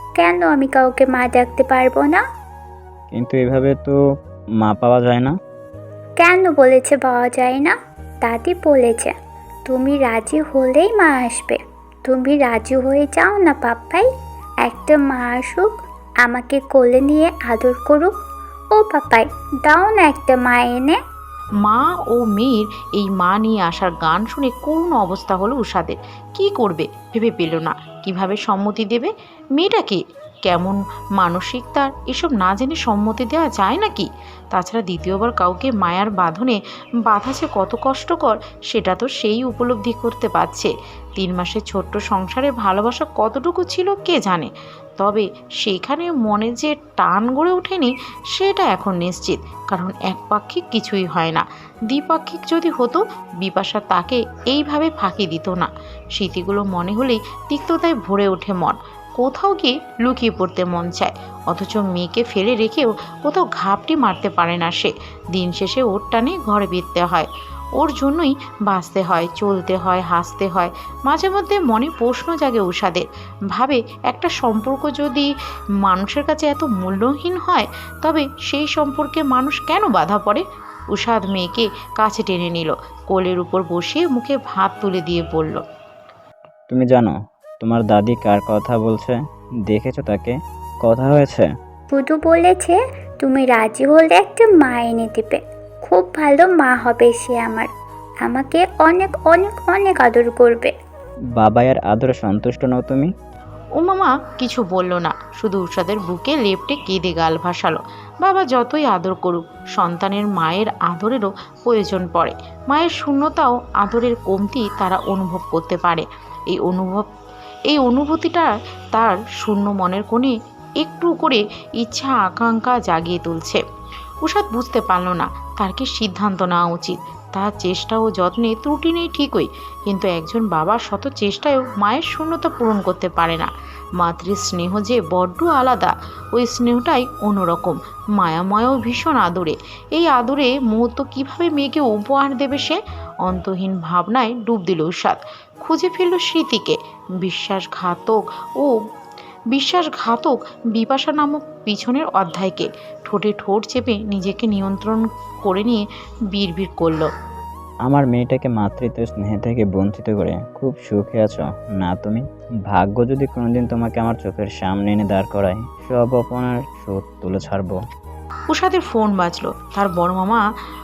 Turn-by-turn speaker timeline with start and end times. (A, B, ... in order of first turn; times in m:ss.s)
0:00.2-0:02.2 A
0:03.1-0:04.0 B
0:04.6-0:05.4 B
0:06.2-0:09.1 A
0:09.7-0:14.1 A
0:14.6-0:15.7 A
0:16.2-0:18.1 A
0:18.7-0:21.0 A
0:21.6-1:15.3 C
1:15.8-1:25.6 C
1:26.7-1:31.5 B
1:31.9-1:37.7 A
1:38.2-1:40.7 A
1:41.4-1:43.1 B
1:43.8-1:57.1 C
1:57.7-2:03.6 C
2:04.2-2:28.8 C
2:29.5-2:37.1 C
2:37.8-2:47.8 B
2:48.5-2:50.4 C